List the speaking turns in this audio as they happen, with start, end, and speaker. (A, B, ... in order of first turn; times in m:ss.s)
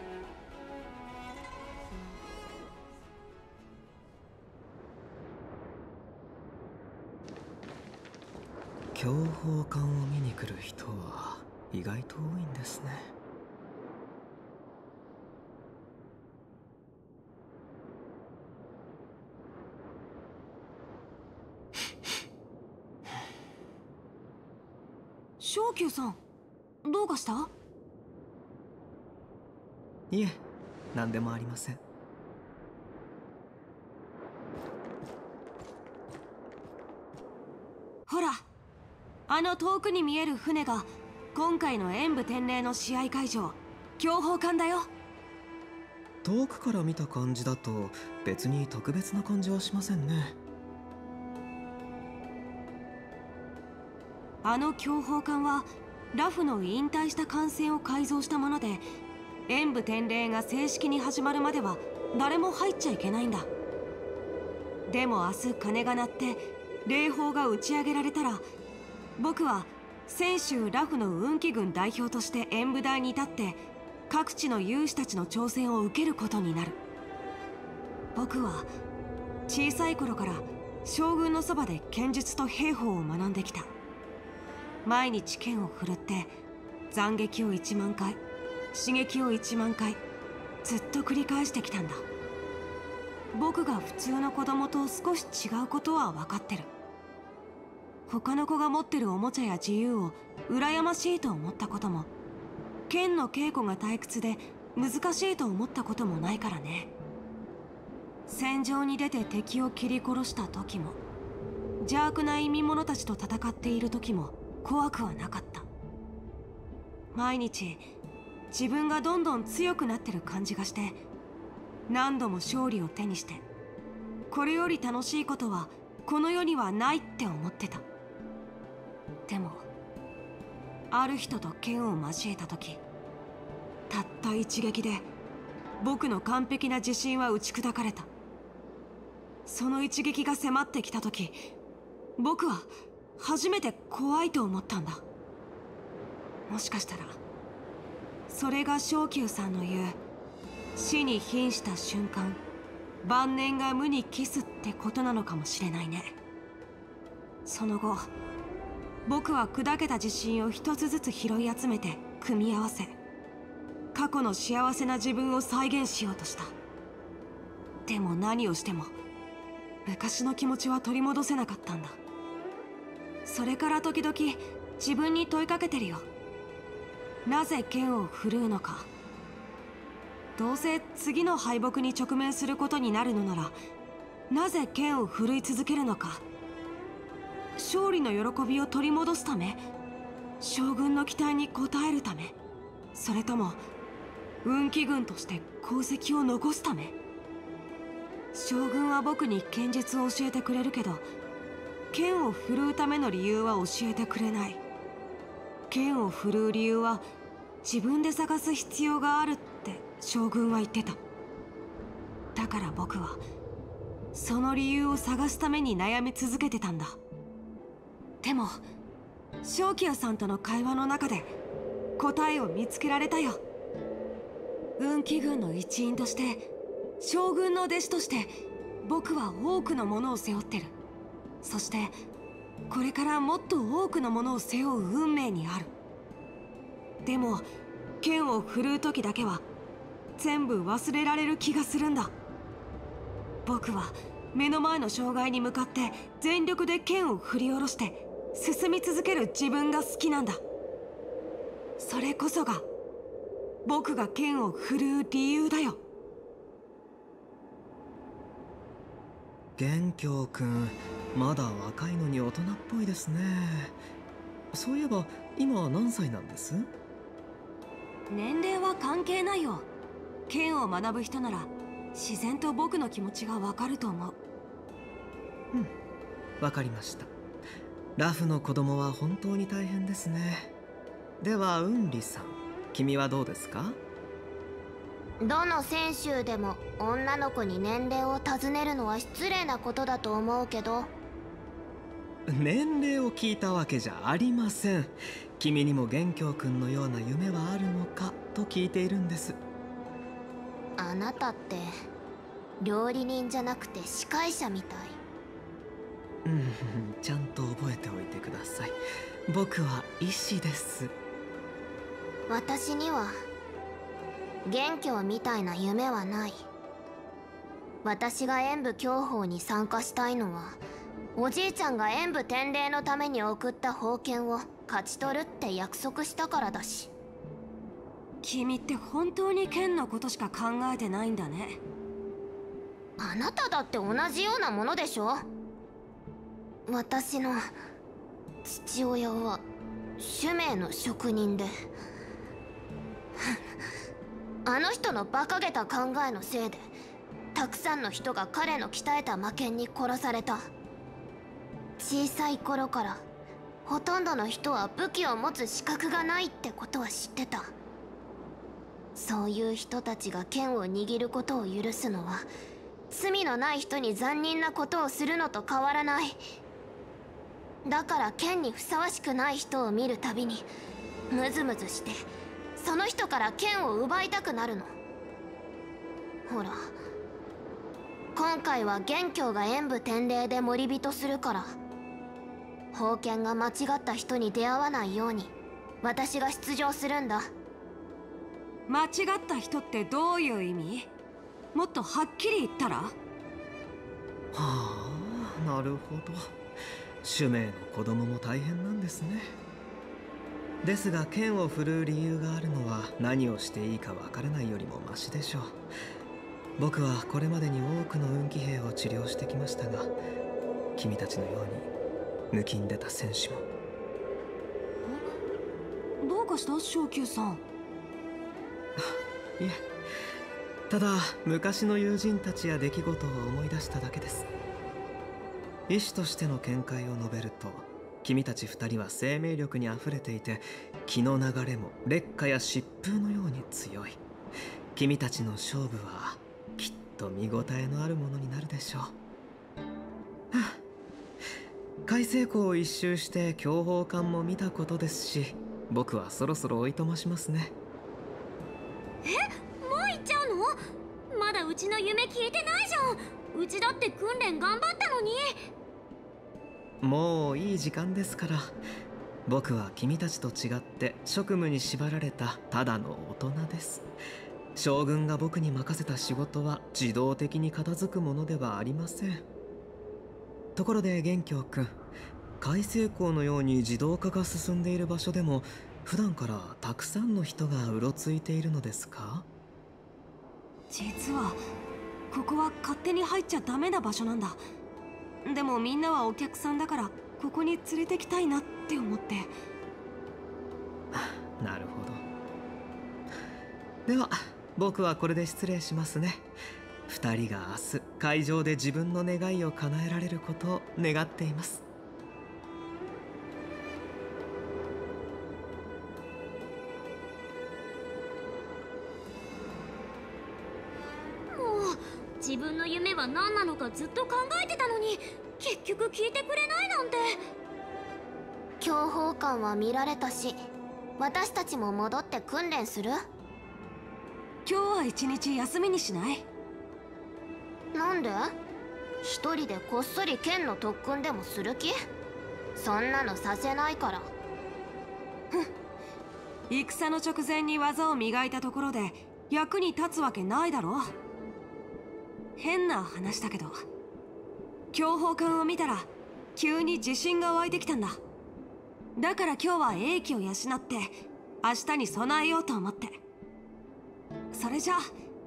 0:08.9-0:13.1 A
0:25.4-0:26.2 B
0:26.8-0:27.5 B
0:30.1-0:30.4 A
0:30.9-0:31.8 A
0:38.1-0:38.4 B
0:39.3-0:44.9 B
0:46.2-0:50.4 A
0:54.4-0:58.8 B
0:59.5-1:03.5 B
1:04.9-1:08.4 B
1:09.2-1:16.8 B
1:18.1-1:18.7 B
1:19.5-1:23.7 B
1:24.8-1:26.3 B
1:26.9-1:28.2 B
1:28.7-1:30.0 B
1:30.6-1:32.0 B
1:33.3-1:36.7 B
1:38.1-1:42.1 B
1:42.9-1:46.9 B
1:48.3-1:51.0 B
1:51.8-1:55.7 B
1:57.1-1:57.8 B
1:58.5-2:01.0 B
2:01.9-2:03.4 B
2:04.3-2:07.8 B
2:09.3-2:09.7 B
2:10.9-2:12.8 B
2:13.9-2:15.1 B
2:15.8-2:18.1 B
2:19.4-2:21.4 B
2:22.2-2:25.0 B
2:26.5-2:27.2 B
2:28.3-2:30.0 B
2:30.8-2:32.4 B
2:33.0-2:36.2 B
2:37.4-2:38.1 B
2:39.0-2:43.0 B
2:43.9-2:46.5 B
2:47.9-2:48.9 B
2:49.8-2:52.0 B
2:53.2-2:56.0 B
2:57.2-2:58.9 B
3:00.4-3:03.6 B
3:04.3-3:06.2 B
3:07.6-3:09.6 B
3:10.4-3:12.4 B
3:12.9-3:13.6 B
3:14.4-3:17.0 B
3:18.3-3:21.0 B
3:21.9-3:24.6 B
3:25.7-3:27.0 B
3:27.6-3:31.0 B
3:32.3-3:33.2 B
3:34.1-3:37.0 B
3:38.2-3:38.6 B
3:39.4-3:41.3 B
3:42.0-3:43.4 B
3:44.8-3:46.4 B
3:47.0-3:48.3 B
3:48.8-3:50.7 B
3:51.4-3:51.9 B
3:52.7-3:55.7 B
3:57.0-3:57.5 B
3:58.0-3:59.4 B
4:00.2-4:02.1 B
4:03.4-4:10.4 B
4:11.8-4:12.6 B
4:13.6-4:15.8 B
4:19.6-4:23.8 A
4:24.5-4:26.7 A
4:28.1-4:29.7 B
4:30.3-4:34.2 B
4:36.4-4:37.1 A
4:38.0-4:40.5 A
4:41.2-4:43.8 A
4:45.2-4:50.9 C
4:52.3-4:59.4 A
5:00.8-5:01.7 C
5:02.6-5:05.0 C
5:06.2-5:10.9 A
5:12.3-5:13.1 C
5:14.4-5:16.4 C
5:17.8-5:20.6 C
5:21.2-5:26.9 C
5:28.2-5:31.6 B
5:33.0-5:35.2 C
5:36.7-5:37.4 C
5:38.4-5:39.4 C
5:40.0-5:41.5 C
5:44.4-5:46.7 C
5:47.3-5:50.5 C
5:51.8-5:53.0 C
5:53.6-5:57.5 C
5:59.0-6:02.3 C
6:02.9-6:06.2 C
6:07.6-6:10.5 C
6:11.1-6:12.0 C
6:12.6-6:14.7 C
6:16.3-6:16.7 C
6:18.1-6:21.5 C
6:22.7-6:27.3 C
6:28.7-6:30.9 B
6:31.5-6:33.0 B
6:34.3-6:36.3 A
6:37.0-6:39.4 A
6:40.6-6:45.6 A
6:46.6-6:49.9 A
6:50.8-6:51.7 A
6:52.3-6:53.4 A
6:56.0-6:57.4 B
6:58.8-6:59.6 A
7:00.7-7:04.3 A
7:05.7-7:14.0 A
7:14.7-7:18.9 A
7:20.3-7:20.6 A
7:21.8-7:27.5 A
7:29.0-7:30.6 D
7:31.1-7:35.4 D
7:36.8-7:38.5 A
7:39.3-7:43.9 A
7:44.5-7:49.2 A
7:50.6-7:51.8 A
7:52.4-7:59.2 A
8:00.7-8:01.4 B
8:02.1-8:04.4 B
8:05.2-8:09.3 B
8:10.9-8:12.0 A
8:13.8-8:16.3 A
8:16.9-8:21.6 A
8:31.3-8:37.2 D
8:38.6-8:40.4 C
8:41.0-8:43.0 C
8:44.4-8:46.2 B
8:47.7-8:48.3 C
8:49.0-8:51.7 C
8:52.6-8:54.1 C
8:56.5-9:00.9 B
9:02.4-9:03.6 B
9:04.7-9:08.0 B
9:09.0-9:13.0 B
9:14.3-9:14.8 B